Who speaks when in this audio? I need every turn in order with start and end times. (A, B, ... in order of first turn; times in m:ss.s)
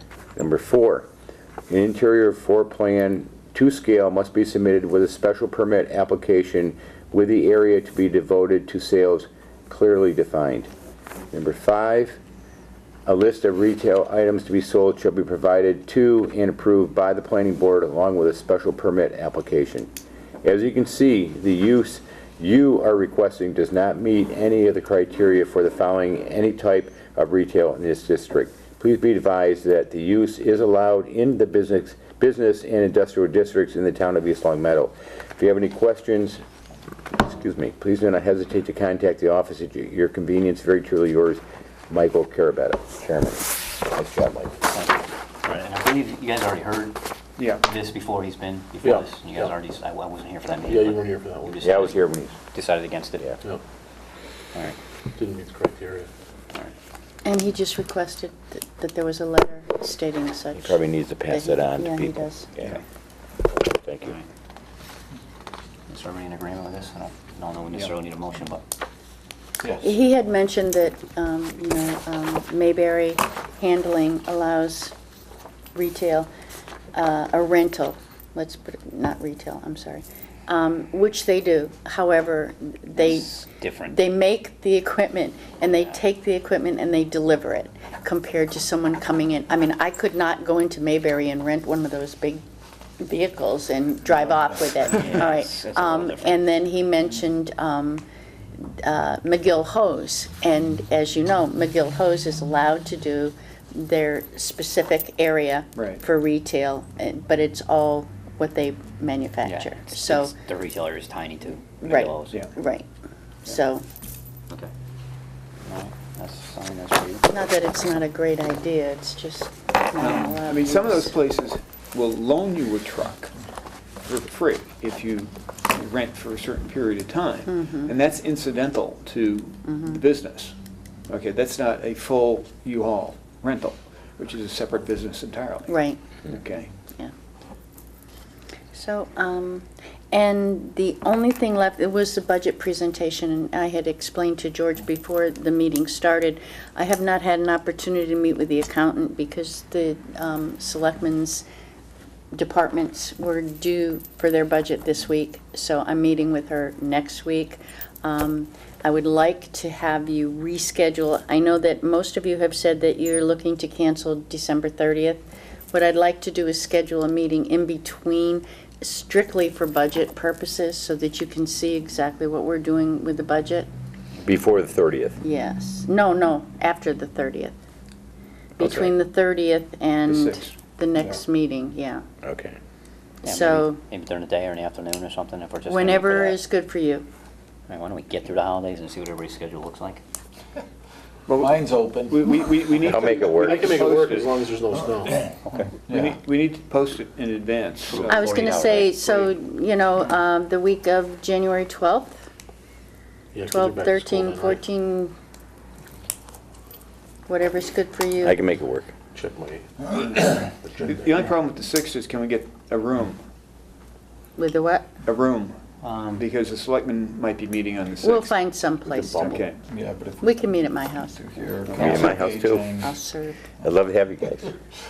0:00.4-0:01.0 A
0:01.7-0:10.7 A
0:11.3-0:12.2 A
0:13.0-0:19.9 A
0:20.4-0:36.4 A
0:37.2-0:44.5 A
0:44.7-0:47.0 B
0:47.4-0:47.6 C
0:47.6-0:53.4 B
0:48.8-0:49.1 D
0:50.6-0:51.7 D
0:51.6-0:52.3 A
0:55.1-0:56.1 D
0:57.2-1:02.5 E
1:00.6-1:02.2 A
1:03.8-1:04.1 A
1:05.9-1:08.6 B
1:09.8-1:14.9 E
1:15.7-1:16.3 E
1:16.9-1:23.3 E
1:22.9-1:24.0 B
1:23.9-1:32.4 E
1:25.8-1:26.0 B
1:33.0-1:38.0 E
1:34.6-1:36.4 B
1:38.6-1:50.3 E
1:45.8-1:46.0 C
1:49.4-1:52.4 B
1:51.8-1:52.9 E
1:52.3-1:52.5 C
1:53.5-1:53.8 E
1:55.6-1:57.3 B
1:57.3-2:01.2 E
2:00.0-2:03.3 C
2:04.0-2:10.5 C
2:07.6-2:07.9 E
2:11.1-2:16.7 C
2:15.7-2:16.0 E
2:18.7-2:31.4 E
2:32.3-2:53.7 E
2:54.2-2:55.2 A
2:55.2-2:57.5 E
2:58.6-3:02.0 E
2:58.6-2:58.9 A
3:00.0-3:00.6 C
3:02.2-3:02.5 A
3:03.2-3:03.8 E
3:03.2-3:06.4 B
3:05.6-3:07.0 E
3:07.7-3:10.0 B
3:11.3-3:14.5 C
3:11.3-3:12.3 F
3:12.8-3:15.3 D
3:12.9-3:13.5 A
3:15.4-3:15.7 B
3:15.9-3:16.2 F
3:15.9-3:19.3 C
3:17.9-3:19.0 B
3:18.1-3:22.3 E
3:23.3-3:24.6 D
3:23.5-3:25.1 E
3:27.3-3:28.4 E
3:28.2-3:28.9 A
3:28.3-3:28.8 F
3:29.1-3:31.3 D
3:29.9-3:30.3 C
3:30.8-3:33.2 C
3:34.4-3:34.9 E
3:35.0-3:35.6 C
3:35.8-3:36.2 B
3:36.1-3:38.4 C
3:38.0-3:39.4 E
3:38.9-3:39.4 D
3:39.2-3:39.6 C
3:39.7-3:43.0 F
3:40.2-3:41.2 E
3:41.8-3:42.7 A
3:42.8-3:43.4 E
3:43.6-3:44.5 A